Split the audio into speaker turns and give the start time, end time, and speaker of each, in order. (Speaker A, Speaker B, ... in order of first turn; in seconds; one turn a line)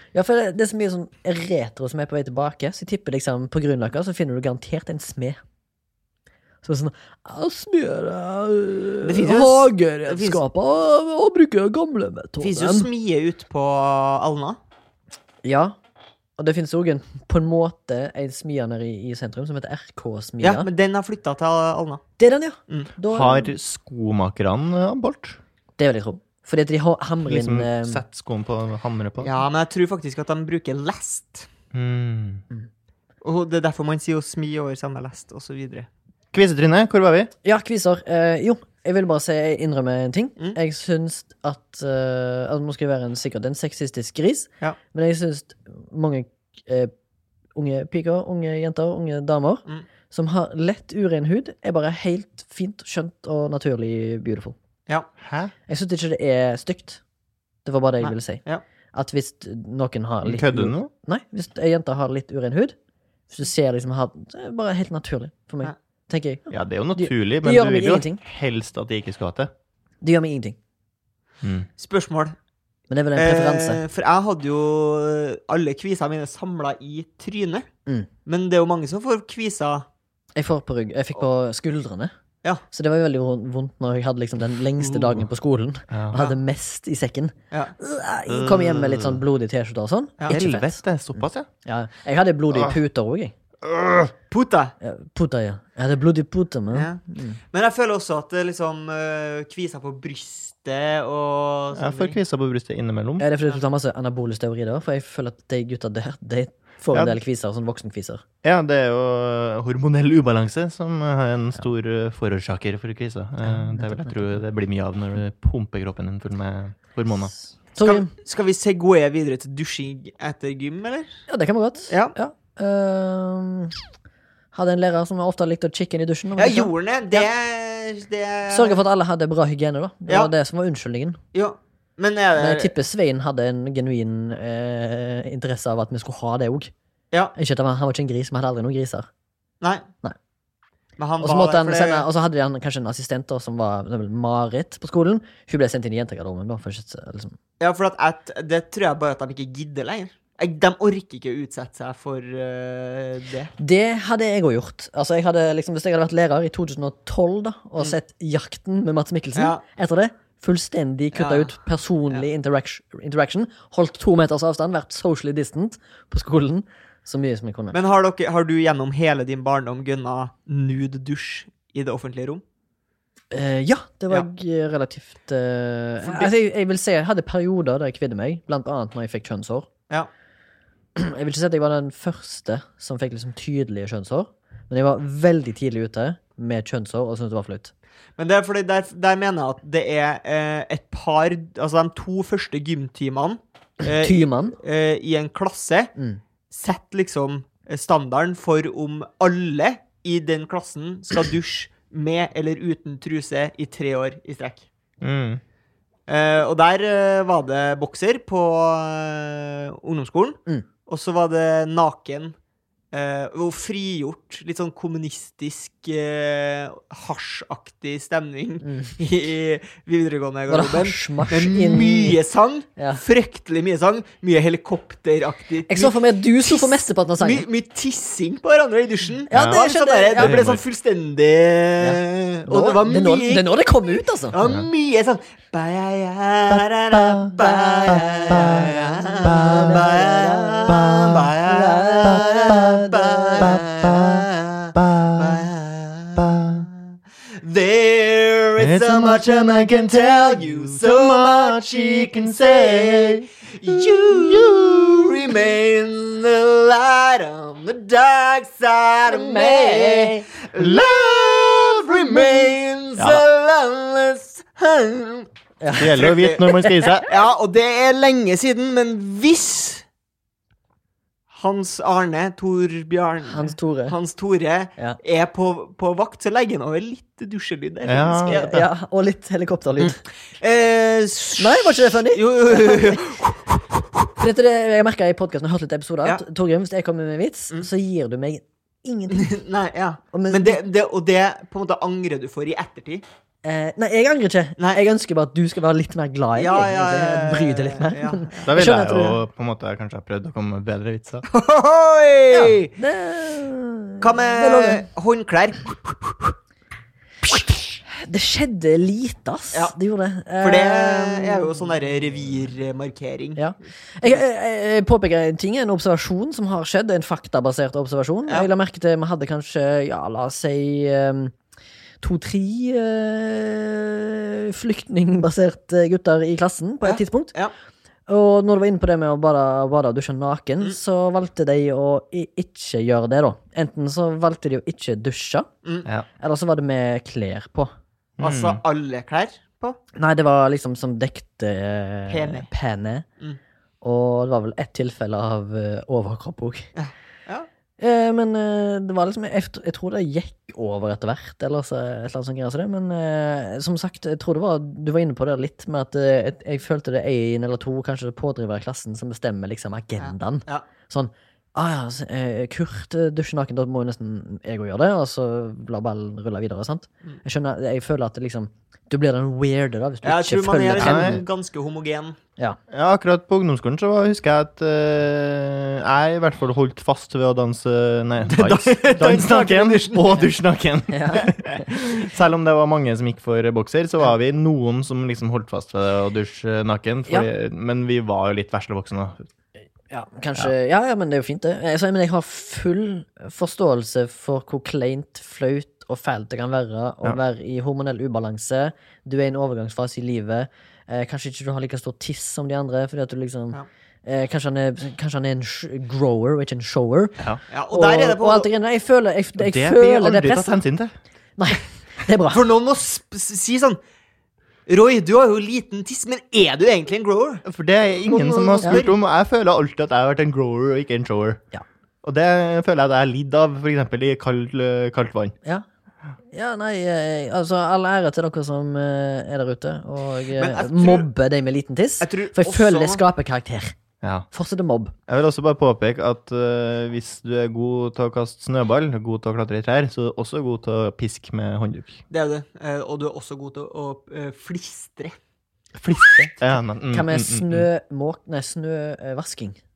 Speaker A: 0.1-5.4
Speaker A: 6.6-12.9
Speaker B: 9.0-10.4
Speaker B: 12.4-14.6
Speaker A: 15.4-15.7
Speaker A: 16.4-20.7
Speaker B: 20.4-22.0
Speaker A: 22.2-23.5
Speaker C: 23.1-25.4
Speaker A: 25.8-28.0
Speaker C: 27.2-29.4
Speaker B: 29.2-31.5
Speaker C: 31.7-32.4
Speaker B: 33.2-35.9
Speaker C: 36.3-37.3
Speaker A: 37.4-46.9
Speaker A: 47.5-54.5
Speaker C: 55.2-55.5
Speaker A: 55.7-57.0
Speaker A: 57.6-62.8
Speaker B: 58.0-58.6
Speaker C: 60.2-60.9
Speaker A: 63.3-68.2
Speaker C: 66.5-69.5
Speaker A: 70.0-70.5
Speaker C: 71.4-71.7
Speaker B: 71.8-72.3
Speaker A: 72.9-73.8
Speaker B: 73.1-77.7
Speaker B: 78.2-79.8
Speaker A: 80.3-82.1
Speaker A: 82.7-93.3
Speaker C: 85.9-86.2
Speaker C: 88.3-89.2
Speaker C: 90.3-91.5
Speaker C: 93.6-94.1
Speaker B: 94.3-94.7
Speaker A: 94.8-97.4
Speaker B: 96.7-97.0
Speaker B: 97.5-102.2
Speaker C: 101.7-103.2
Speaker A: 103.2-108.2
Speaker C: 106.9-107.2
Speaker C: 108.4-117.3
Speaker A: 113.5-114.4
Speaker A: 117.7-118.1
Speaker B: 117.8-121.1
Speaker A: 121.3-123.8
Speaker A: 124.5-127.3
Speaker B: 126.4-128.8
Speaker A: 128.5-131.2
Speaker B: 131.3-132.7
Speaker A: 132.3-136.7
Speaker A: 137.3-139.1
Speaker B: 139.6-139.8
Speaker B: 141.0-142.1
Speaker A: 141.2-147.3
Speaker B: 147.6-153.5
Speaker A: 153.6-167.8
Speaker B: 159.3-159.6
Speaker B: 161.1-161.5
Speaker B: 167.7-172.4
Speaker A: 173.3-179.7
Speaker A: 180.9-187.7
Speaker B: 188.2-195.9
Speaker A: 193.8-194.6
Speaker B: 196.5-204.7
Speaker C: 205.0-205.4
Speaker B: 206.1-212.3
Speaker B: 212.9-233.5
Speaker A: 218.6-218.9
Speaker A: 220.5-222.2
Speaker A: 222.8-223.0
Speaker A: 225.7-227.5
Speaker A: 229.3-230.5
Speaker C: 229.3-229.6
Speaker C: 230.2-230.6
Speaker A: 231.8-234.4
Speaker B: 234.3-246.2
Speaker C: 236.5-237.3
Speaker A: 237.4-240.8
Speaker C: 237.9-239.8
Speaker C: 240.7-241.3
Speaker A: 241.4-243.6
Speaker C: 242.0-245.5
Speaker C: 246.2-246.7
Speaker B: 247.3-269.8
Speaker C: 248.6-255.5
Speaker A: 259.1-260.2
Speaker C: 260.6-261.1
Speaker C: 261.6-262.0
Speaker C: 263.0-263.2
Speaker A: 265.6-267.1
Speaker C: 265.8-267.1
Speaker B: 271.3-278.5
Speaker A: 273.2-273.9
Speaker C: 277.8-278.7
Speaker A: 278.1-280.0
Speaker B: 279.8-284.1
Speaker A: 281.4-283.0
Speaker A: 284.2-289.3
Speaker B: 289.1-293.0
Speaker A: 290.1-290.6
Speaker A: 293.4-299.2
Speaker B: 296.4-298.6
Speaker C: 298.4-301.2
Speaker B: 301.3-302.7
Speaker A: 302.3-304.8
Speaker B: 304.0-306.3
Speaker A: 307.9-311.6
Speaker B: 310.4-313.4
Speaker A: 313.4-321.3
Speaker A: 322.0-327.3
Speaker B: 326.8-327.5
Speaker A: 328.1-335.5
Speaker A: 336.2-337.7
Speaker C: 338.2-338.6
Speaker B: 338.2-339.8
Speaker A: 339.9-343.0
Speaker B: 342.1-342.5
Speaker A: 343.8-346.7
Speaker B: 346.8-347.5
Speaker A: 347.8-371.2
Speaker B: 360.0-360.6
Speaker B: 370.0-372.2
Speaker C: 370.8-371.2
Speaker C: 372.7-389.2
Speaker B: 378.3-380.2
Speaker A: 380.9-381.8
Speaker A: 389.9-407.2
Speaker B: 407.5-408.5
Speaker A: 407.7-410.6
Speaker C: 409.4-410.9
Speaker A: 411.4-412.5
Speaker B: 412.3-413.8
Speaker B: 414.7-417.4
Speaker C: 417.4-421.4
Speaker B: 418.1-418.9
Speaker C: 422.0-425.3
Speaker A: 426.3-433.8
Speaker B: 430.3-431.1
Speaker B: 432.0-433.0
Speaker C: 434.0-434.3
Speaker A: 434.3-434.9
Speaker C: 435.1-442.0
Speaker B: 442.1-445.2
Speaker C: 445.7-447.7
Speaker A: 446.9-449.6